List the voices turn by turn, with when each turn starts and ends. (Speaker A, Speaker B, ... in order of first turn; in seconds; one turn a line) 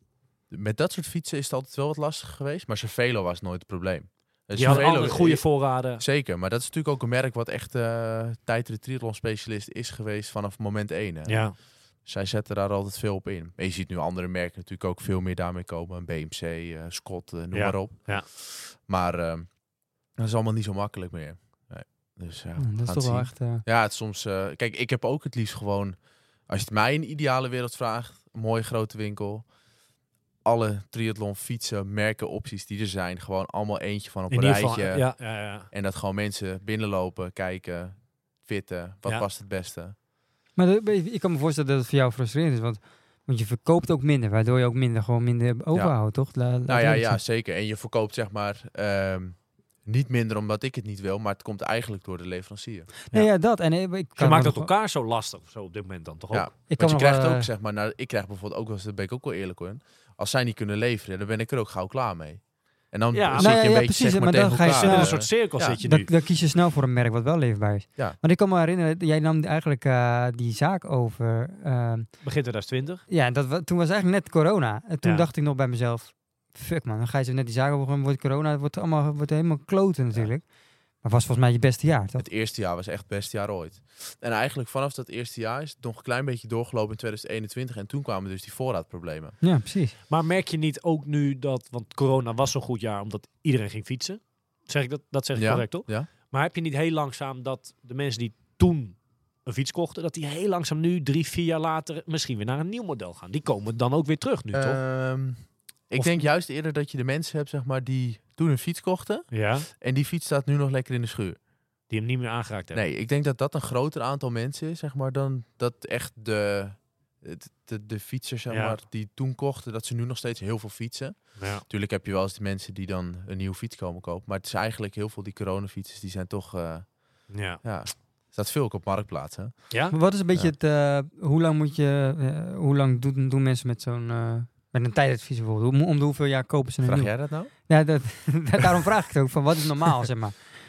Speaker A: 0.5-19.5
Speaker B: 4.5-6.0
Speaker B: 11.3-11.5
Speaker B: 17.5-18.2
Speaker A: 20.1-29.5
Speaker C: 22.6-23.6
Speaker A: 30.4-39.9
Speaker B: 34.3-35.7
Speaker C: 40.5-47.2
Speaker A: 45.7-53.0
Speaker C: 53.1-54.7
Speaker B: 54.2-56.5
Speaker A: 56.3-65.8
Speaker C: 56.7-57.5
Speaker B: 63.1-63.6
Speaker C: 63.4-72.3
Speaker B: 64.7-66.1
Speaker B: 72.2-73.0
Speaker C: 73.1-82.3
Speaker B: 75.0-75.3
Speaker A: 82.2-89.4
Speaker C: 89.4-89.9
Speaker B: 90.1-104.8
Speaker A: 95.4-96.1
Speaker A: 104.5-111.4
Speaker B: 106.0-106.2
Speaker B: 109.3-109.7
Speaker B: 111.9-112.8
Speaker A: 112.7-129.7
Speaker B: 118.5-118.8
Speaker B: 121.4-121.6
Speaker B: 127.3-127.6
Speaker B: 129.7-130.0
Speaker C: 129.9-140.6
Speaker A: 136.8-137.5